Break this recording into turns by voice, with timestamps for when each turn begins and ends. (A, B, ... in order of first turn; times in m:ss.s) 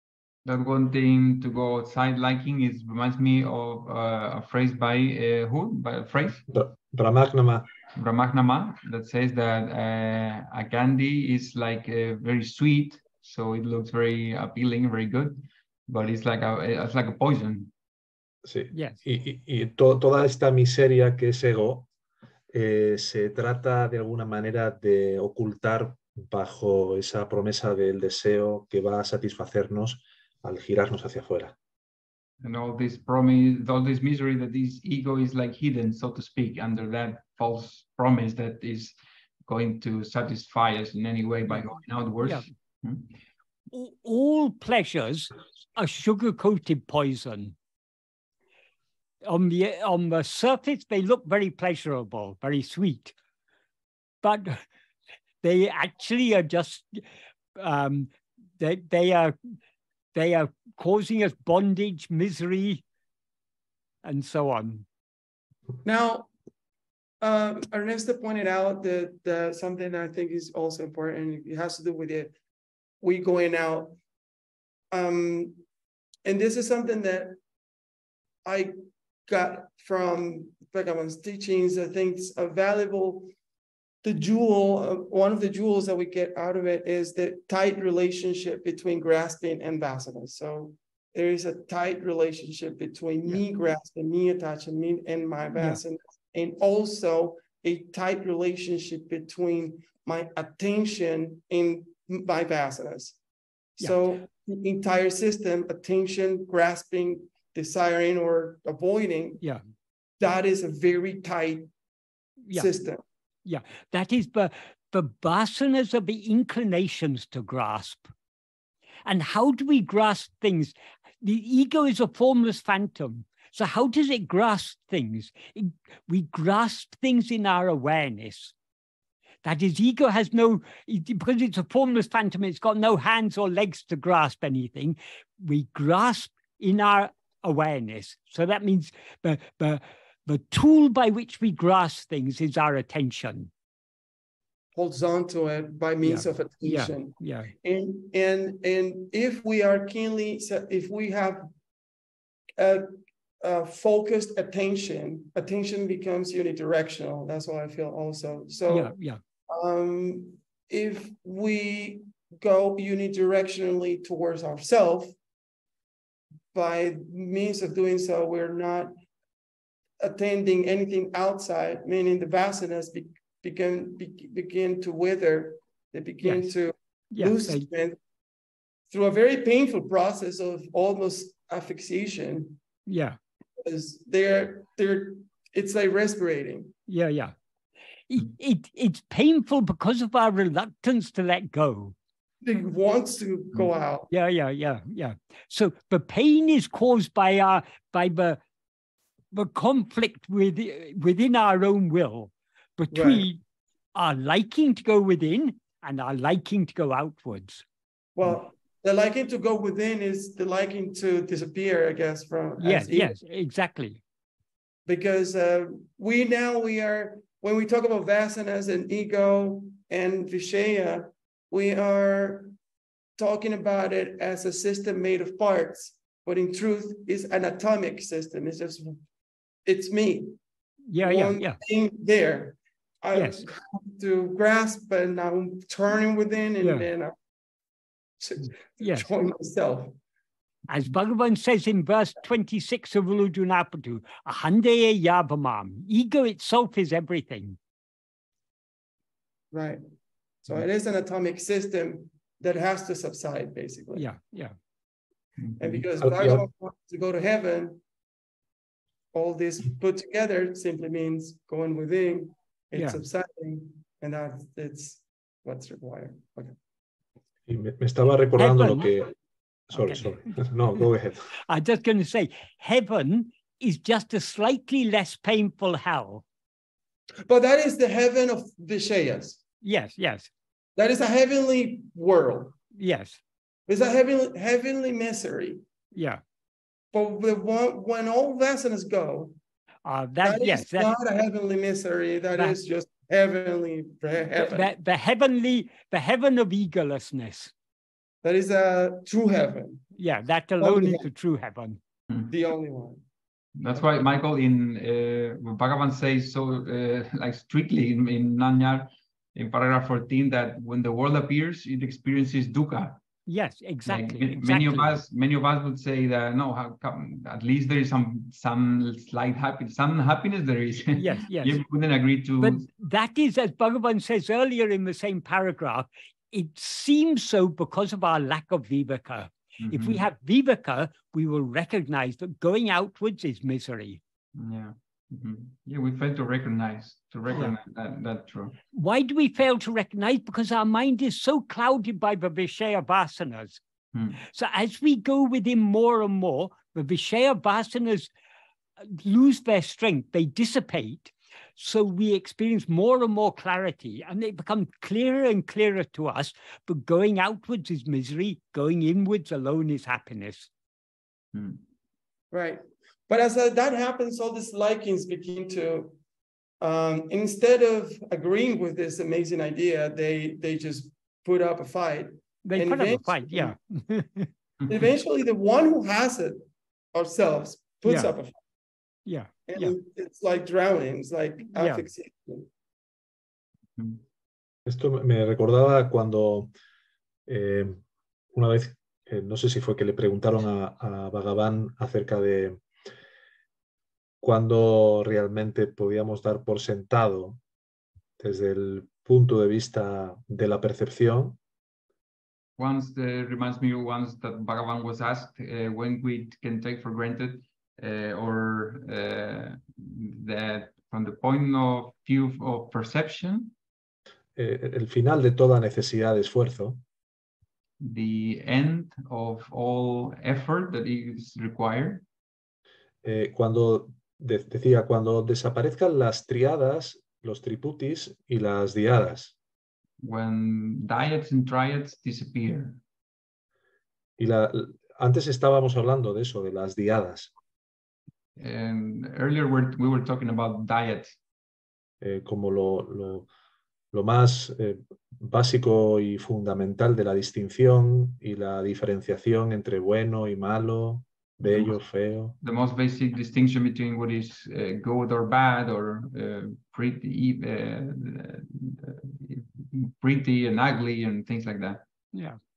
0:00.4-0:06.4 A
0:06.5-0:07.7 B
0:07.9-0:17.7 A
0:18.4-0:21.9 B
0:18.7-0:19.0 C
0:22.5-0:31.5 B
0:32.4-0:43.1 A
0:42.2-0:42.5 C
0:43.7-0:47.5 C
0:49.2-0:53.1 C
0:54.2-0:54.6 C
0:55.4-0:57.0 C
0:57.6-0:59.5 C
1:00.1-1:02.8 C
1:04.0-1:04.8 C
1:05.8-1:06.3 D
1:07.2-1:12.3 D
1:13.0-1:14.0 D
1:14.9-1:15.6 D
1:16.2-1:17.4 D
1:18.4-1:18.7 D
1:19.3-1:23.3 D
1:24.0-1:43.2 D
1:43.8-1:49.4 D
1:50.2-1:51.7 D
1:52.5-1:53.0 D
1:53.4-1:58.1 C
1:59.0-2:08.5 C
2:09.4-2:23.5 C
2:24.7-2:31.5 D
2:26.0-2:27.5 C
2:32.6-2:32.9 D
2:33.4-2:38.9 D
2:38.7-2:39.2 C
2:39.5-2:45.1 D
2:46.5-2:48.9 D
2:50.0-2:58.0 D
2:57.1-2:57.6 C
2:58.9-3:02.6 D
3:02.9-3:03.2 C
3:03.6-3:06.7 D
3:06.9-3:07.3 C
3:08.1-3:11.9 C
3:12.4-3:14.1 D
3:14.1-3:18.4 C
3:19.3-3:23.4 C
3:22.9-3:23.2 D
3:23.9-3:27.6 C
3:28.2-3:33.1 D
3:32.6-3:34.0 C
3:34.8-3:42.5 D
3:43.2-3:49.0 D
3:49.6-3:50.4 D
3:50.9-3:51.6 C
3:51.0-3:57.1 D
3:53.1-3:53.4 C
3:56.6-3:56.9 C
3:58.2-3:59.9 D
3:58.8-3:59.1 C
4:00.7-4:07.6 C
4:09.5-4:09.8 D
4:10.4-4:14.0 D
4:14.0-4:14.5 C
4:15.4-4:15.7 A
4:15.6-4:17.8 D
4:16.0-4:16.4 B
4:19.1-4:26.5 D
4:22.7-4:23.0 C
4:27.5-4:29.1 B
4:28.4-4:28.9 C
4:29.7-4:31.3 B
4:29.7-4:30.4 C
4:31.4-4:36.2 C
4:37.2-4:39.4 D
4:39.6-4:40.3 C
4:40.8-4:42.6 D
4:42.8-4:43.2 C
4:43.7-4:45.6 D
4:45.9-4:46.2 C
4:46.9-4:49.3 D
4:49.8-4:50.9 C
4:50.2-4:54.7 D
4:54.4-4:57.5 C
4:58.2-4:59.8 D
5:00.0-5:01.8 C
5:00.6-5:01.0 D
5:02.3-5:03.0 D
5:03.6-5:13.0 A
5:13.3-5:15.0 C
5:13.8-5:22.7 A
5:21.0-5:21.6 C
5:22.4-5:34.0 C
5:29.6-5:30.0 A
5:34.3-5:38.6 A
5:38.7-5:43.6 C
5:43.9-5:44.2 A
5:44.2-5:48.1 C
5:48.8-6:00.5 C
6:01.3-6:01.6 A
6:02.3-6:05.9 D
6:06.6-6:13.5 D
6:12.4-6:14.3 C
6:14.7-6:16.4 D
6:16.9-6:18.4 D
6:17.8-6:18.1 C
6:19.0-6:19.7 C
6:19.5-6:22.5 D
6:21.5-6:21.9 C
6:24.6-6:26.5 B
6:27.3-6:27.8 B
6:28.3-6:32.6 B
6:34.2-6:37.4 B
6:38.2-6:41.4 B
6:42.6-6:53.5 A
6:54.4-6:56.8 B
6:57.8-7:02.0 A
7:03.0-7:09.3 B
7:10.0-7:12.8 A
7:14.2-7:17.3 B
7:18.4-7:21.2 A
7:22.0-7:23.3 B
7:23.9-7:32.3 B
7:32.4-7:41.8 A
7:42.1-7:42.4 C